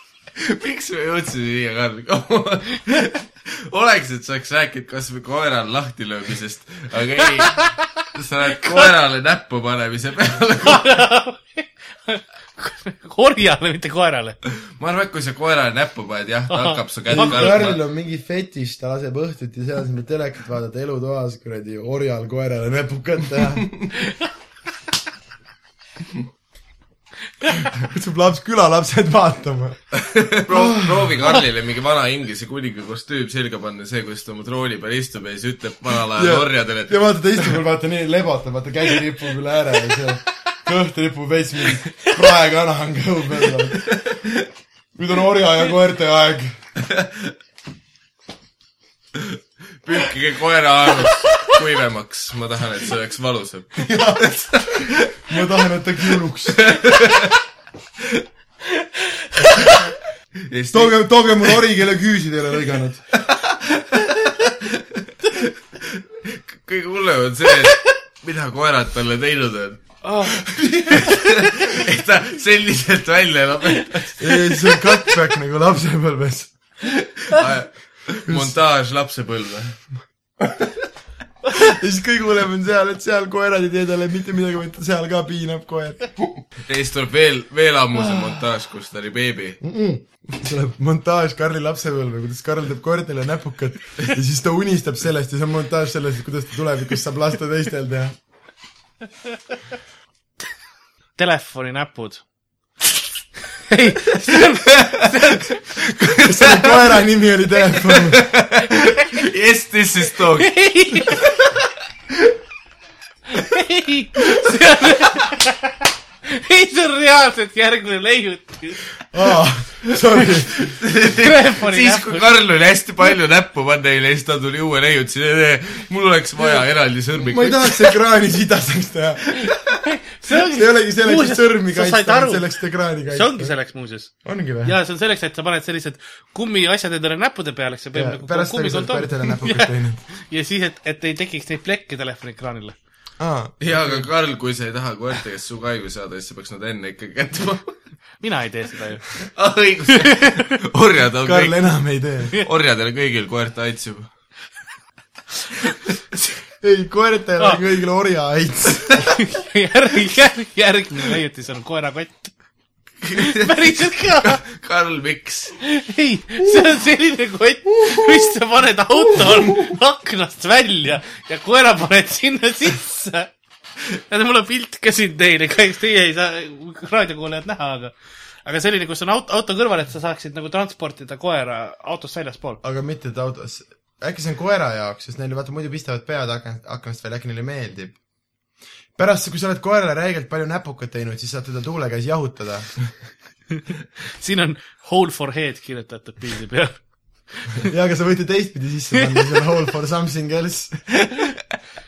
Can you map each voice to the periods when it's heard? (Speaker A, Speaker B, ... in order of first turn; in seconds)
Speaker A: 0.4-10.9, 14.7-17.8, 29.9-37.5, 43.9-44.4, 46.8-47.3, 49.1-55.5, 56.5-57.3, 60.5-61.6, 63.1-74.3, 76.8-79.8, 80.4-80.7, 86.6-89.6, 104.6-105.2, 105.8-106.8, 107.8-111.6, 120.5-128.0, 129.4-129.7, 143.6-147.7, 149.2-151.6, 152.4-154.1, 163.0-165.5
Speaker B: 7.4-7.7, 8.6-8.9, 10.6-14.4, 16.5-17.6, 70.0-71.1, 101.2-102.2, 103.6-105.6, 110.4-111.2, 113.3-118.8, 121.1-122.3, 129.8-132.4, 133.1-142.8, 148.2-149.1, 150.0-150.4, 159.1-162.3, 163.1-164.4, 165.6-173.3, 173.8-182.6, 194.2-197.7
Speaker C: 17.1-23.7, 27.7-29.8, 30.4-31.3, 36.1-44.0, 44.9-46.6, 53.8-56.7, 60.7-63.1, 74.2-76.5, 78.2-78.5, 81.5-86.1, 89.6-98.2, 106.2-108.3, 119.1-120.6, 127.2-129.4, 130.4-133.5, 134.2-134.7, 137.9-140.0, 143.2-144.1, 151.2-152.3, 156.6-159.1, 182.6-188.0, 188.9-192.8, 197.6-200.9